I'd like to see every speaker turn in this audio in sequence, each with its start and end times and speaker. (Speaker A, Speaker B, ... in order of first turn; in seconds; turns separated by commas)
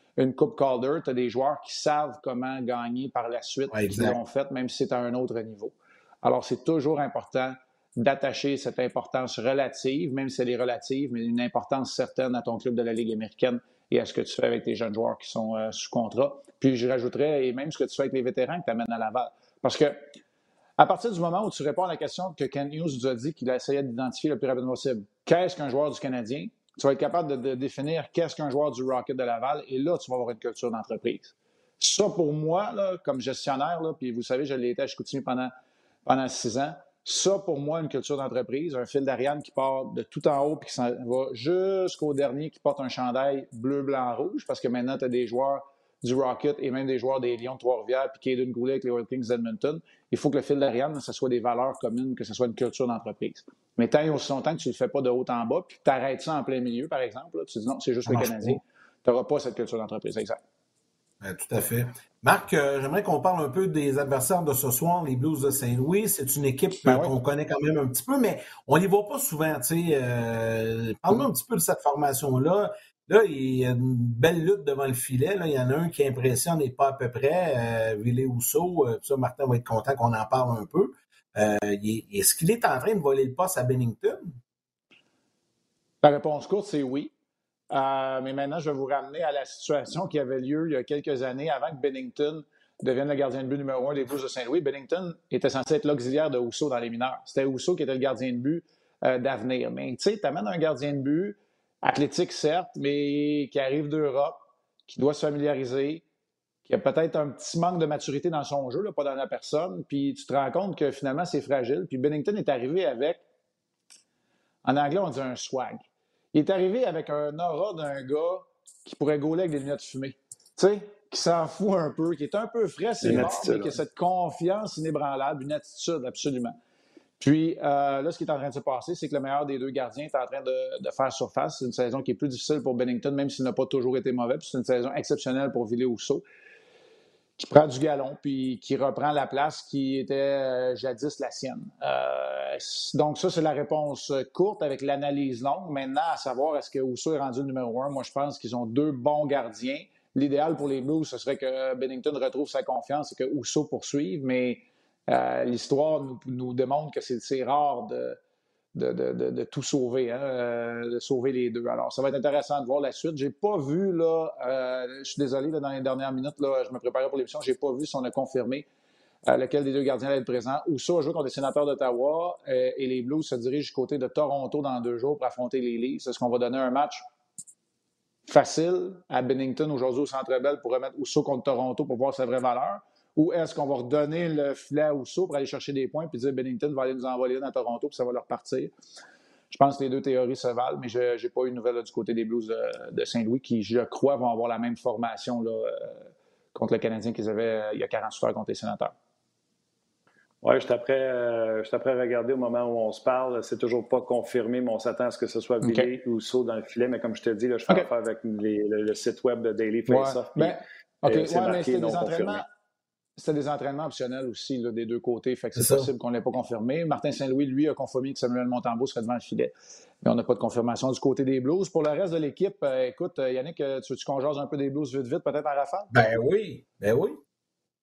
Speaker A: 0.2-20.1, Speaker B: 3.7-4.2, Speaker A: 20.8-35.5, Speaker A: 36.0-60.4, Speaker B: 58.1-58.6, Speaker B: 61.2-84.3, Speaker A: 66.8-67.1, Speaker A: 86.0-87.1, Speaker A: 87.7-106.0, Speaker A: 106.6-113.2, Speaker A: 114.6-126.6, Speaker C: 123.0-123.7, Speaker A: 127.2-136.2, Speaker A: 137.4-158.2, Speaker A: 158.7-168.7, Speaker A: 169.2-177.0, Speaker A: 178.3-188.7, Speaker A: 189.5-198.9, Speaker C: 200.4-212.4, Speaker A: 205.6-205.9, Speaker A: 209.9-212.4, Speaker A: 213.2-225.9, Speaker B: 215.6-215.9, Speaker B: 225.9-227.2